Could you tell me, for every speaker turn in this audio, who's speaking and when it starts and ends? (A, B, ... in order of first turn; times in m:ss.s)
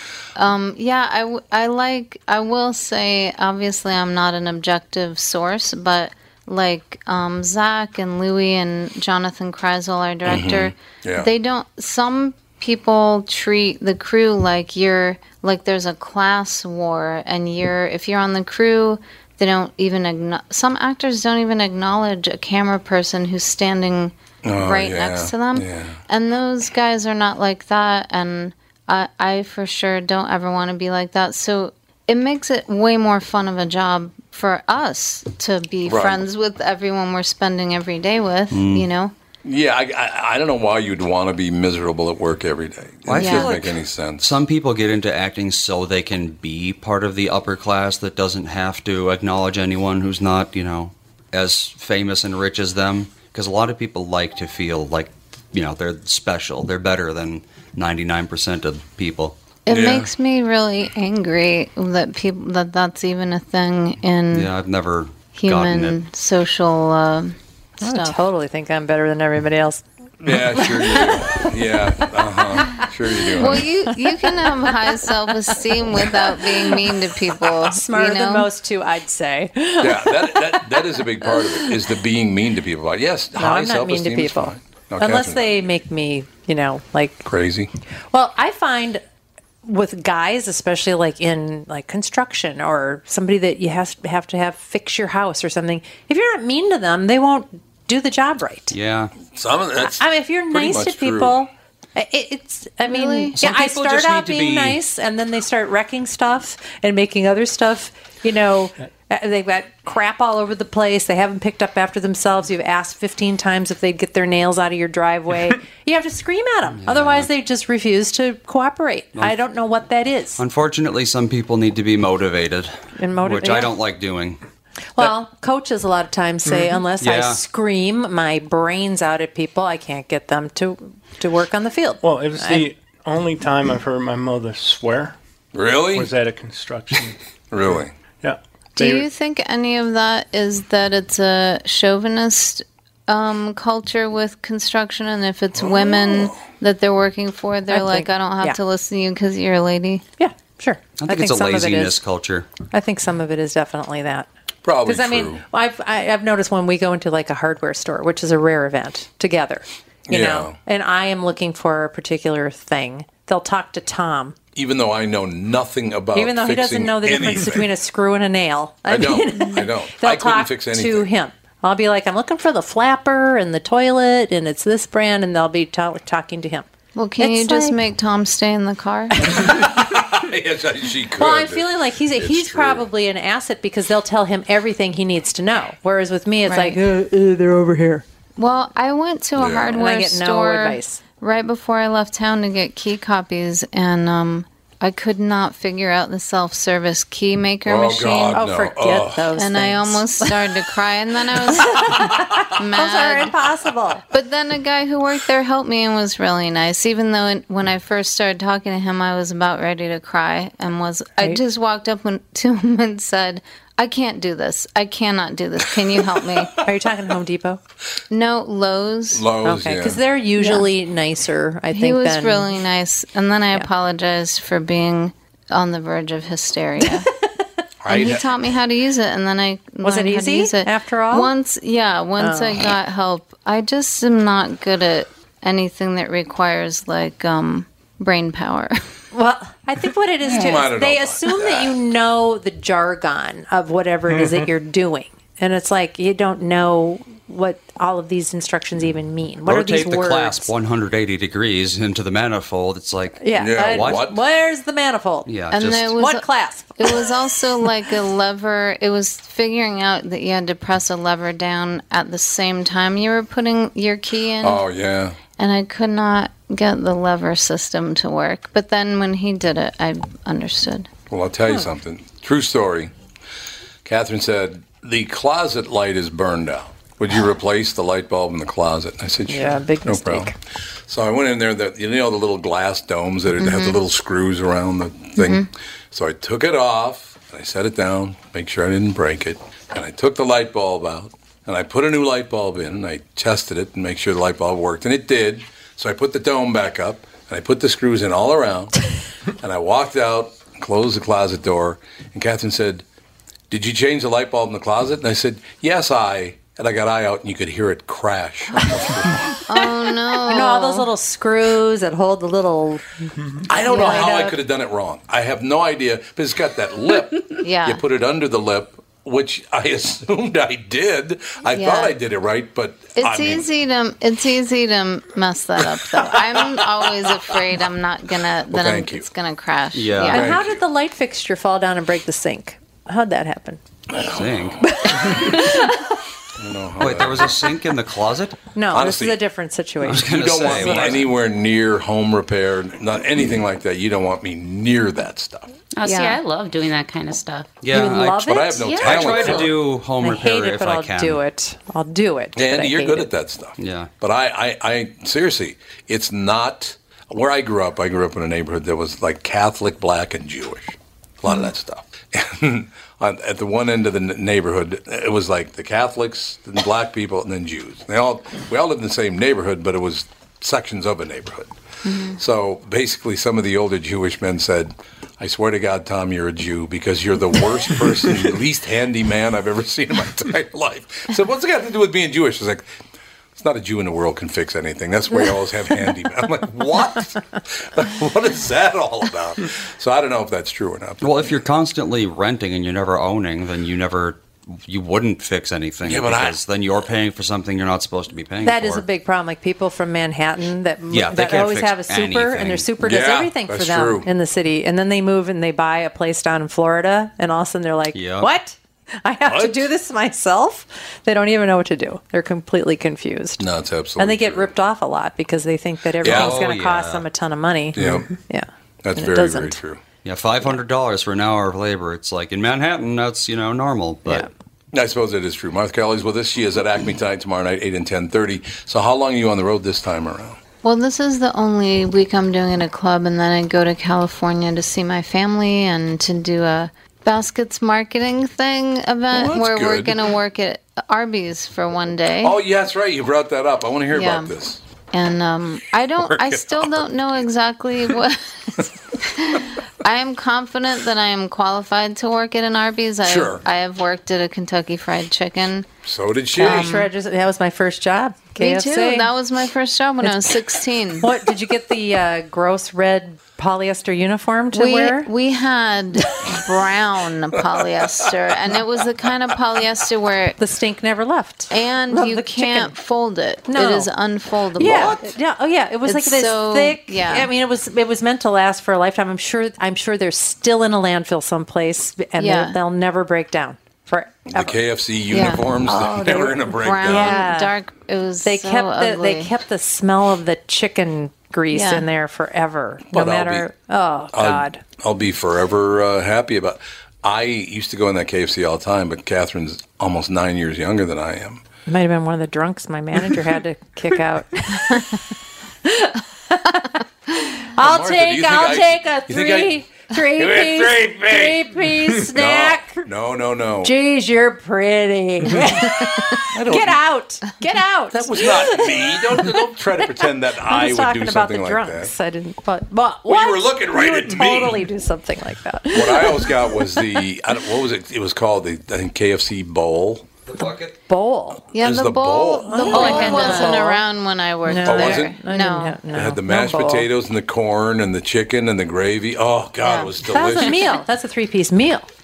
0:00.4-0:39.1 A
0:10.2-0:11.3 B
0:24.4-0:26.0 B
0:35.9-0:36.2 B
0:38.5-0:38.9 C
0:39.4-0:44.3 B
0:43.1-0:43.7 C
0:43.2-0:43.5 A
0:44.2-0:59.4 C
0:59.7-1:04.5 A
0:59.7-1:00.1 B
1:04.3-1:06.0 C
1:05.4-1:08.2 A
1:07.8-1:11.4 D
1:10.2-1:13.7 B
1:13.4-1:18.5 A
1:17.7-1:21.7 D
1:19.8-1:25.7 B
1:23.4-1:27.2 D
1:27.3-1:27.7 B
1:28.1-1:29.0 D
1:29.6-1:38.7 D
1:38.7-1:39.1 C
1:39.4-1:41.4 B
1:39.8-2:00.4 D
1:42.9-1:43.4 A
1:43.4-1:44.8 C
1:56.8-1:57.3 C
2:00.4-2:04.4 C
2:03.0-2:03.7 D
2:05.0-2:12.7 D
2:07.0-2:07.4 C
2:12.0-2:15.2 E
2:15.5-2:16.1 B
2:15.9-2:17.2 E
2:17.5-2:17.9 B
2:18.2-2:19.1 E
2:18.8-2:30.0 A
2:25.5-2:26.4 B
2:27.7-2:28.6 D
2:30.2-2:32.0 D
2:31.0-2:32.5 C
2:32.7-2:34.3 D
2:34.6-2:35.4 B
2:34.8-2:44.4 D
2:40.1-2:40.6 B
2:44.6-2:47.7 B
2:46.2-2:56.7 D
2:48.9-2:51.1 B
2:57.0-2:59.4 A
2:57.2-2:57.8 D
2:59.4-3:02.8 B
3:01.2-3:08.0 D
3:06.5-3:06.8 A
3:08.4-3:18.4 A
3:09.4-3:09.8 B
3:09.8-3:11.0 D
3:17.7-3:19.3 B
3:18.3-3:20.3 D
3:19.4-3:23.3 A
3:21.6-3:24.0 D
3:24.1-3:36.6 A
3:36.6-3:37.6 D
3:38.1-3:39.2 A
3:39.1-3:40.0 B
3:39.4-3:42.5 D
3:40.4-3:40.7 A
3:41.7-3:47.1 A
3:47.8-3:48.3 B
3:47.9-3:58.8 A
3:49.8-3:51.3 D
3:52.2-3:52.6 D
3:59.1-4:10.5 D
4:00.2-4:01.8 B
4:09.4-4:14.0 C
4:13.2-4:15.3 D
4:13.4-4:14.2 B
4:15.3-4:15.9 C
4:15.5-4:16.3 A
4:16.0-4:16.9 D
4:16.8-4:24.6 A
4:24.4-4:25.2 B
4:25.4-4:30.9 A
4:31.1-4:32.9 B
4:33.8-4:40.3 B
4:39.3-4:40.4 D
4:40.9-4:58.7 B
4:43.4-4:43.8 A
4:45.2-4:45.5 A
4:59.4-5:02.8 B
5:03.5-5:09.3 B
5:09.5-5:10.9 A
5:10.3-5:14.4 D
5:13.5-5:23.5 B
5:13.8-5:14.1 A
5:17.4-5:17.8 A
5:21.5-5:21.9 A
5:23.0-5:30.3 A
5:25.9-5:26.5 B
5:28.5-5:29.1 B
5:29.7-5:30.2 C
5:30.1-5:33.6 D
5:30.1-5:30.6 B
5:33.9-5:34.6 B
5:34.0-5:34.6 C
5:34.7-5:35.8 D
5:36.4-5:37.4 B
5:36.8-5:38.4 C
5:38.6-5:41.1 D
5:38.7-5:39.2 B
5:39.8-5:41.0 C
5:40.0-5:45.5 B
5:45.8-5:47.5 F
5:45.8-5:46.2 A
5:47.6-5:51.2 C
5:47.7-5:49.5 D
5:48.1-5:49.5 B
5:48.6-5:49.4 F
5:50.0-5:53.1 D
5:52.4-6:11.5 B
5:53.6-5:53.9 C
6:11.8-6:12.2 A
6:12.1-6:22.7 B
6:23.4-6:31.3 B
6:31.0-6:38.8 C
6:35.8-6:36.4 B
6:38.4-6:53.4 D
6:40.9-6:42.7 C
6:42.8-6:44.1 B
6:47.9-6:48.3 C
6:49.3-6:49.7 B
6:53.4-6:54.5 B
6:54.0-6:59.6 D
6:56.0-6:56.4 B
6:56.0-6:57.0 C
6:57.8-6:58.1 B
6:58.8-6:59.8 B
7:00.0-7:04.3 C
7:04.7-7:10.4 B
7:10.6-7:22.4 A
7:19.1-7:20.0 B
7:22.2-7:24.6 B
7:23.9-7:24.3 A
7:24.9-7:35.7 A
7:26.0-7:27.0 B
7:33.0-7:33.4 B
7:35.8-7:36.9 B
7:36.4-7:39.1 D
7:36.4-7:36.9 A
7:38.4-7:41.1 A
7:40.0-7:40.3 D
7:41.0-7:45.1 D
7:44.5-7:50.4 A
7:47.5-7:48.1 B
7:50.4-7:52.8 D
7:51.5-7:55.0 A
7:53.5-7:53.9 D
7:54.6-8:04.6 D
7:54.6-7:55.0 B
7:55.9-7:57.3 A
8:02.2-8:02.6 A
8:04.3-8:07.2 B
8:05.1-8:09.3 A
8:06.8-8:07.5 D
8:08.2-8:14.6 D
8:11.5-8:11.9 A
8:12.9-8:13.5 B
8:14.1-8:21.4 B
8:21.7-8:25.0 D
8:25.6-8:32.8 D
8:27.6-8:33.7 B
8:33.6-8:46.8 D
8:36.3-8:36.8 B
8:37.9-8:41.9 B
8:43.1-8:44.6 B
8:45.7-8:50.1 B
8:50.3-8:50.7 C
8:50.4-8:51.4 D
8:51.5-8:55.8 A
8:51.5-8:53.5 B
8:52.5-8:53.8 D
8:52.8-8:53.5 F
8:54.5-8:56.9 D
8:54.6-8:55.2 B
8:55.9-9:00.7 B
8:59.6-8:59.9 A
9:00.0-9:01.9 D